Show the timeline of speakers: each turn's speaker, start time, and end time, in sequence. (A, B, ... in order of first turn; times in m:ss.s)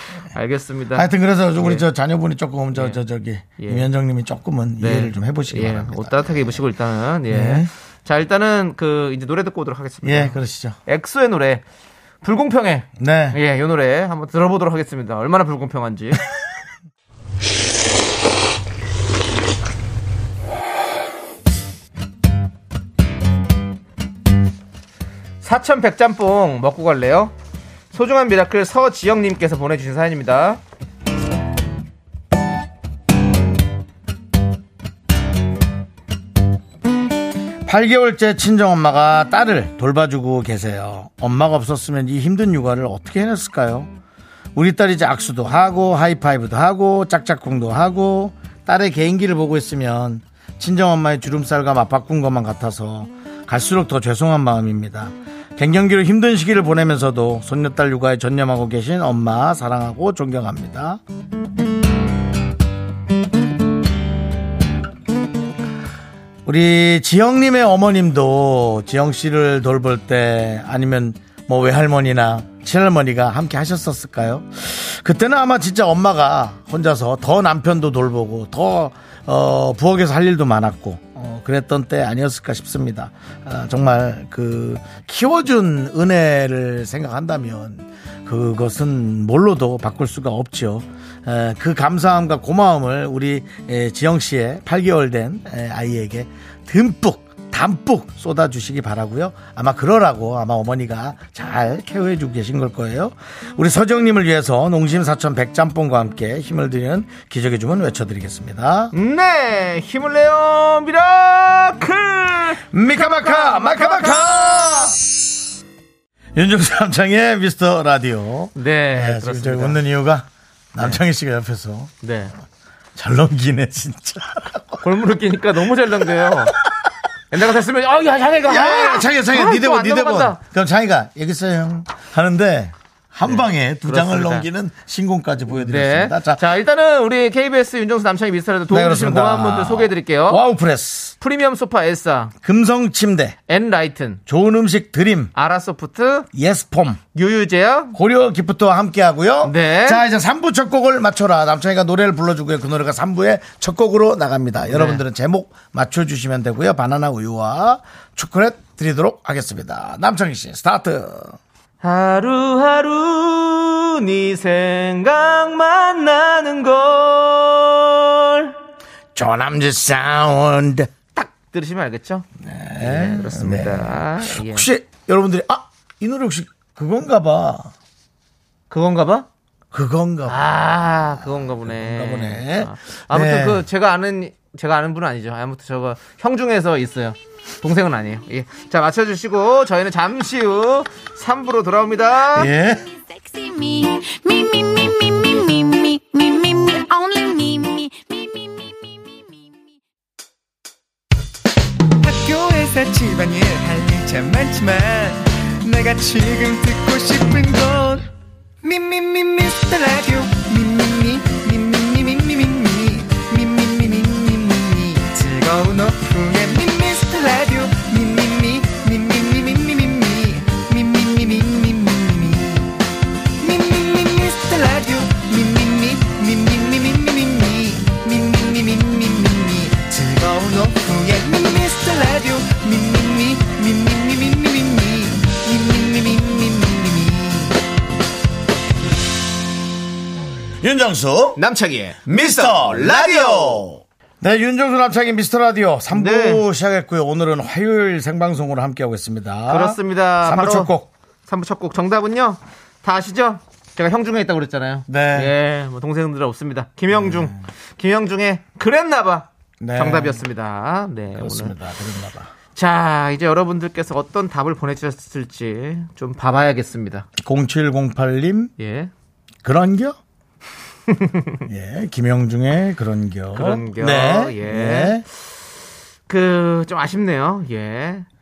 0:00.3-0:01.8 A
0:00.9-0:06.5 B
0:02.7-0:03.0 A
0:03.6-0:03.9 A
0:04.8-0:11.6 A
0:07.3-0:07.7 B
0:10.0-0:10.8 B
0:12.2-0:16.2 A
0:13.0-0:13.4 B
0:25.4-0:27.3 A
0:27.9-0:30.6 A
0:37.6-0:43.9 B
0:44.5-1:01.0 B
1:06.4-1:48.9 B
1:48.9-1:54.7 A
1:52.7-1:55.0 B
1:56.3-2:01.9 B
1:58.6-1:59.8 A
2:02.0-2:02.3 A
2:03.0-2:04.8 B
2:04.8-2:06.6 A
2:07.3-2:10.4 A
2:08.4-2:16.4 B
2:13.2-2:14.5 A
2:15.5-2:20.4 A
2:18.7-2:21.1 B
2:21.2-2:22.3 A
2:22.4-2:23.4 B
2:23.5-2:24.2 A
2:24.3-2:25.3 B
2:25.3-2:26.3 A
2:26.3-2:27.0 B
2:27.1-2:27.9 A
2:27.9-2:41.4 B
2:29.4-2:30.0 A
2:34.7-2:35.0 A
2:41.8-2:48.5 A
2:49.1-2:50.9 B
2:51.1-2:52.3 A
2:52.4-2:57.7 B
2:52.8-2:54.7 A
2:58.7-2:59.3 A
2:59.7-3:00.4 B
3:00.3-3:12.5 A
3:01.2-3:03.6 B
3:12.3-3:12.9 B
3:13.0-3:19.5 C
3:22.0-3:28.1 D
3:28.6-3:42.7 D
3:43.4-3:57.5 D
4:00.6-4:01.4 B
4:01.4-4:03.7 A
4:02.0-4:10.9 B
4:05.9-4:06.4 A
4:09.5-4:10.7 A
4:11.2-4:21.5 A
4:14.9-4:15.3 B
4:16.9-4:17.3 B
4:19.6-4:20.2 B
4:21.1-4:22.3 B
4:22.5-4:27.1 A
4:27.2-4:28.5 B
4:28.6-4:28.9 A
4:29.4-4:30.0 B
4:30.9-4:31.4 A
4:31.4-4:35.0 B
4:33.3-4:35.2 A
4:36.1-4:38.0 A